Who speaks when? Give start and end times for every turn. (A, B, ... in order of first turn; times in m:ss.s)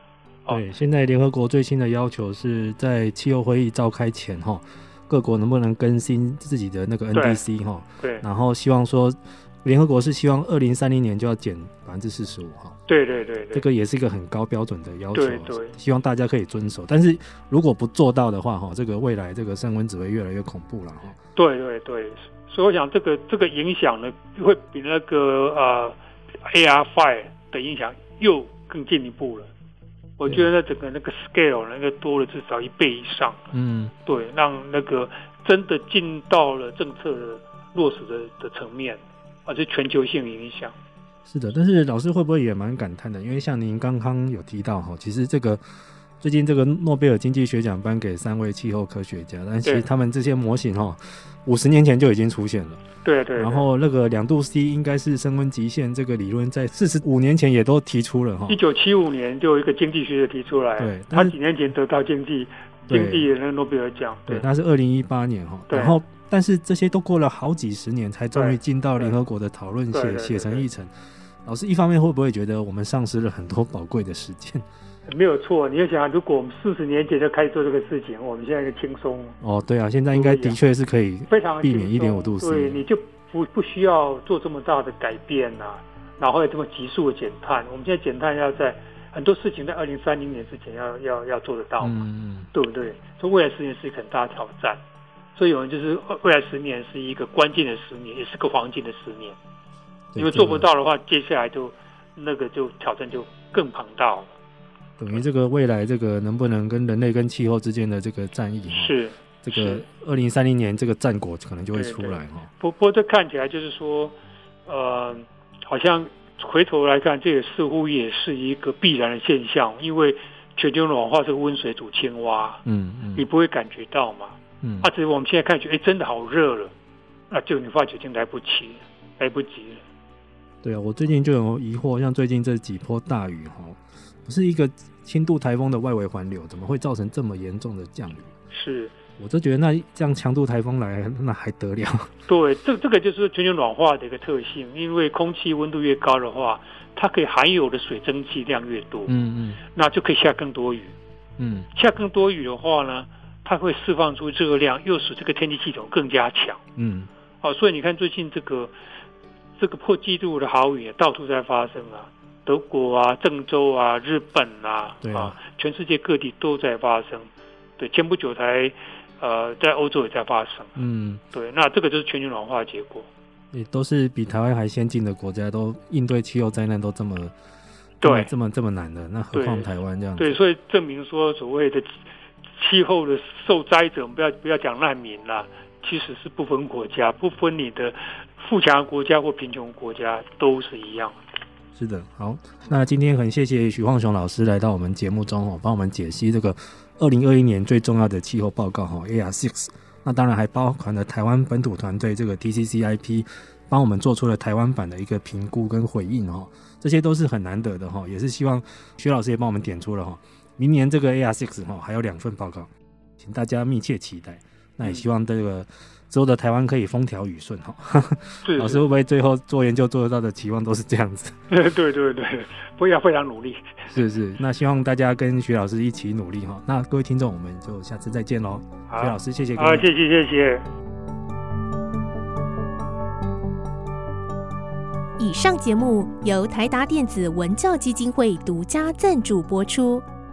0:00.5-0:12.8 A
0:07.1-0:07.4 B
0:08.0-0:08.2 B
0:12.9-0:13.6 B
0:13.5-0:21.2 A
0:15.1-0:15.7 B
0:21.4-0:29.5 B
0:30.2-0:33.5 B
0:33.5-0:33.9 A
0:34.1-0:40.8 B
0:41.2-0:45.6 A
0:46.2-0:52.8 A
0:53.0-0:53.7 B
0:53.4-0:58.6 A
0:58.5-1:04.5 B
1:00.8-1:01.4 A
1:02.9-1:03.3 A
1:04.3-1:10.9 A
1:05.7-1:06.0 B
1:08.3-1:09.2 B
1:09.9-1:10.7 B
1:11.4-1:14.6 A
1:15.1-1:19.4 B
1:19.4-1:22.8 A
1:20.1-1:20.6 B
1:21.3-1:32.0 B
1:31.8-1:32.5 A
1:32.5-1:34.8 B
1:35.4-1:39.4 B
1:40.1-1:40.7 A
1:40.2-1:44.3 B
1:45.0-1:52.5 A
1:48.7-1:49.8 B
1:51.7-1:54.2 B
1:54.7-2:06.7 B
2:02.7-2:03.3 A
2:04.6-2:04.9 A
2:07.3-2:09.8 B
2:10.6-2:18.3 A
2:18.5-2:18.9 B
2:19.2-2:22.1 A
2:22.3-2:29.1 B
2:29.1-2:29.6 A
2:29.7-2:31.0 B
2:31.4-2:31.7 A
2:31.7-2:36.6 B
2:36.8-2:37.1 A
2:37.4-2:38.7 B
2:39.6-2:50.8 B
2:45.0-2:45.4 A
2:50.8-2:51.2 A
2:51.3-2:53.1 B
2:53.5-2:57.3 A
2:58.0-2:58.3 B
2:58.0-3:00.4 A
2:59.3-3:11.2 B
3:11.8-3:41.4 A
3:38.4-3:38.8 B
3:41.5-3:43.9 B
3:43.9-3:49.9 A
3:48.9-3:50.7 B
3:55.2-4:00.0 C